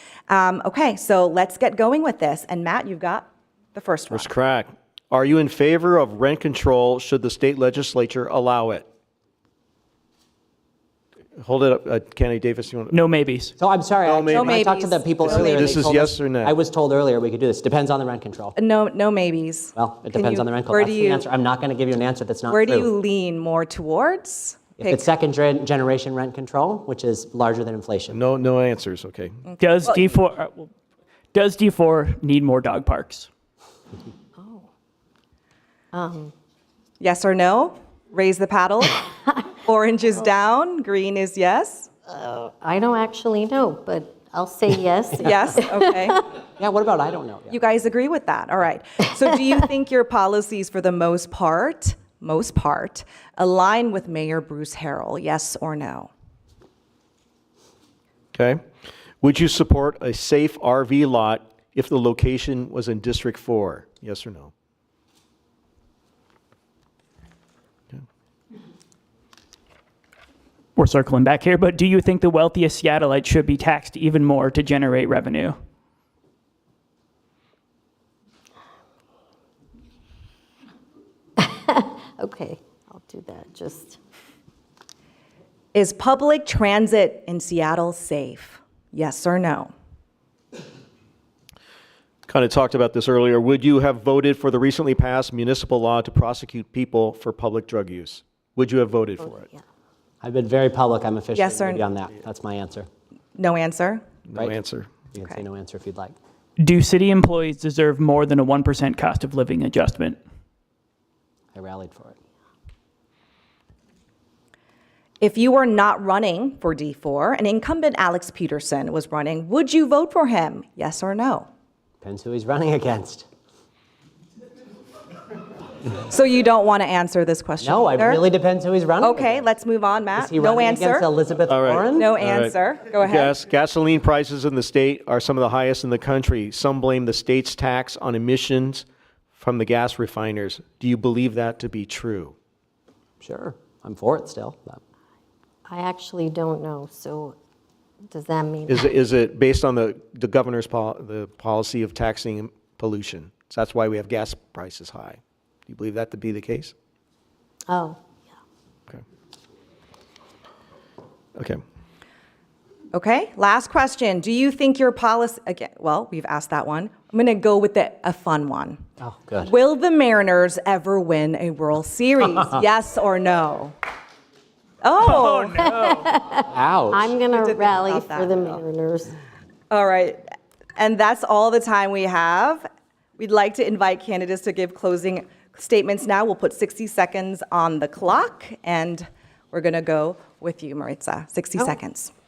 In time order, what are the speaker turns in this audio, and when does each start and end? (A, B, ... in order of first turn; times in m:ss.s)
0:00.3-0:04.3 A
0:04.1-0:08.9 B
0:11.4-0:13.0 B
0:12.9-0:13.5 C
0:13.6-0:18.6 D
0:14.0-0:14.6 B
0:14.3-0:15.8 A
0:15.2-0:16.6 B
0:18.6-0:21.2 A
0:19.8-0:22.9 D
0:22.5-0:25.1 A
0:24.8-0:28.2 D
0:28.1-0:29.4 B
0:29.5-0:30.0 A
0:29.6-0:30.7 C
0:31.3-0:33.3 C
0:34.4-0:34.7 E
0:35.9-0:36.3 E
0:37.0-0:39.0 A
0:39.6-0:41.9 A
0:42.1-0:46.1 E
0:45.2-0:46.2 A
0:46.6-0:47.5 D
0:47.5-0:56.1 A
0:58.3-0:58.6 B
0:59.2-1:04.5 B
1:10.8-1:15.6 C
1:21.4-1:24.0 E
1:25.7-1:29.7 A
1:32.3-1:39.5 B
1:40.2-1:42.9 D
1:41.4-1:41.8 A
1:43.4-1:44.0 A
1:44.3-1:44.9 B
1:45.1-1:46.1 D
1:46.6-1:50.2 C
1:51.6-1:52.2 D
1:55.2-2:01.5 A
2:02.0-2:03.3 D
2:06.0-2:08.2 A
2:07.6-2:09.4 D
2:09.0-2:11.1 A
2:10.2-2:12.1 D
2:11.5-2:22.3 B
2:12.0-2:13.3 A
2:23.2-2:24.8 D
2:25.7-2:27.4 E
2:28.1-2:28.9 E
2:28.7-2:36.7 B
2:37.7-2:38.0 E
2:42.9-2:48.8 A
2:49.0-2:49.5 D
2:49.4-2:53.8 A
2:54.8-2:55.8 A
2:55.6-2:59.1 E
2:56.4-2:57.1 D
2:57.3-2:58.6 A
2:59.7-3:00.2 A
3:00.8-3:02.7 A
3:03.2-3:12.1 A